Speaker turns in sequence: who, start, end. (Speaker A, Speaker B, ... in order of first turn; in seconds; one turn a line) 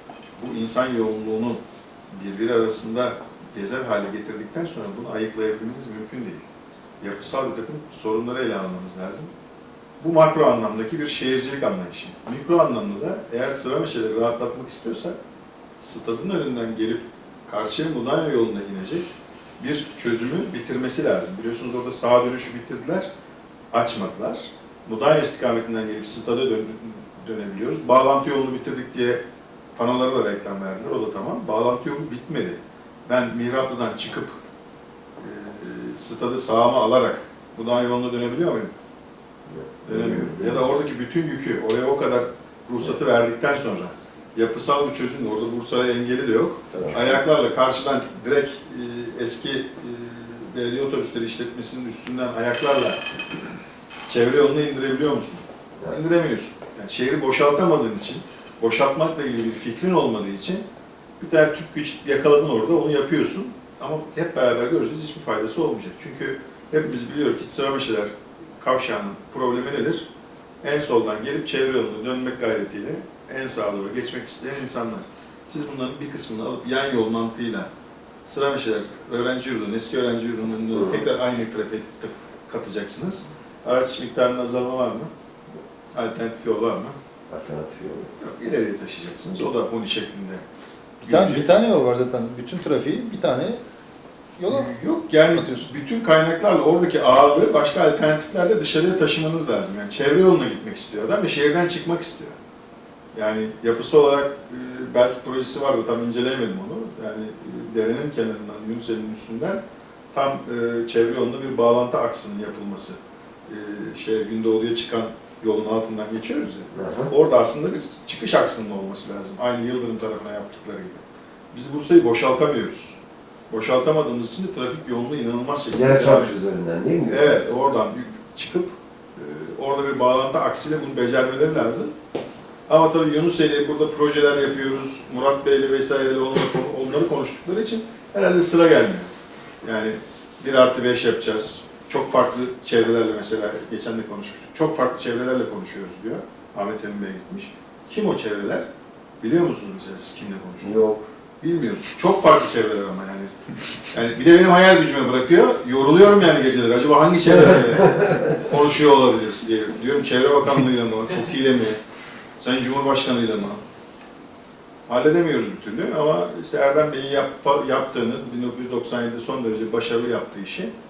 Speaker A: 0.4-6.4
Speaker A: 7.0-9.3
Speaker A: 10.0-15.2
Speaker A: 15.8-19.1
Speaker A: 19.6-23.1
Speaker A: 23.7-29.2
Speaker A: 29.8-34.4
Speaker A: 35.2-38.7
Speaker B: 39.5-40.7
Speaker A: 39.8-53.0
Speaker B: 46.7-47.2
Speaker A: 54.1-60.6
Speaker A: 61.2-70.1
Speaker A: 70.6-77.7
Speaker A: 78.2-85.1
Speaker B: 80.7-81.0
Speaker A: 85.9-86.9
Speaker B: 87.3-88.1
Speaker A: 88.2-90.4
Speaker A: 91.0-91.5
Speaker C: 91.0-93.6
Speaker C: 94.4-94.7
Speaker A: 94.5-102.4
Speaker C: 95.3-95.7
Speaker A: 103.1-109.6
Speaker A: 110.1-123.0
Speaker B: 116.7-117.1
Speaker A: 123.5-126.3
Speaker B: 125.7-127.4
Speaker A: 127.1-131.9
Speaker A: 132.7-139.1
Speaker A: 139.6-148.6
Speaker A: 149.2-150.8
Speaker B: 150.6-151.1
Speaker A: 151.4-153.3
Speaker A: 153.9-161.8
Speaker A: 162.4-163.6
Speaker A: 164.9-170.7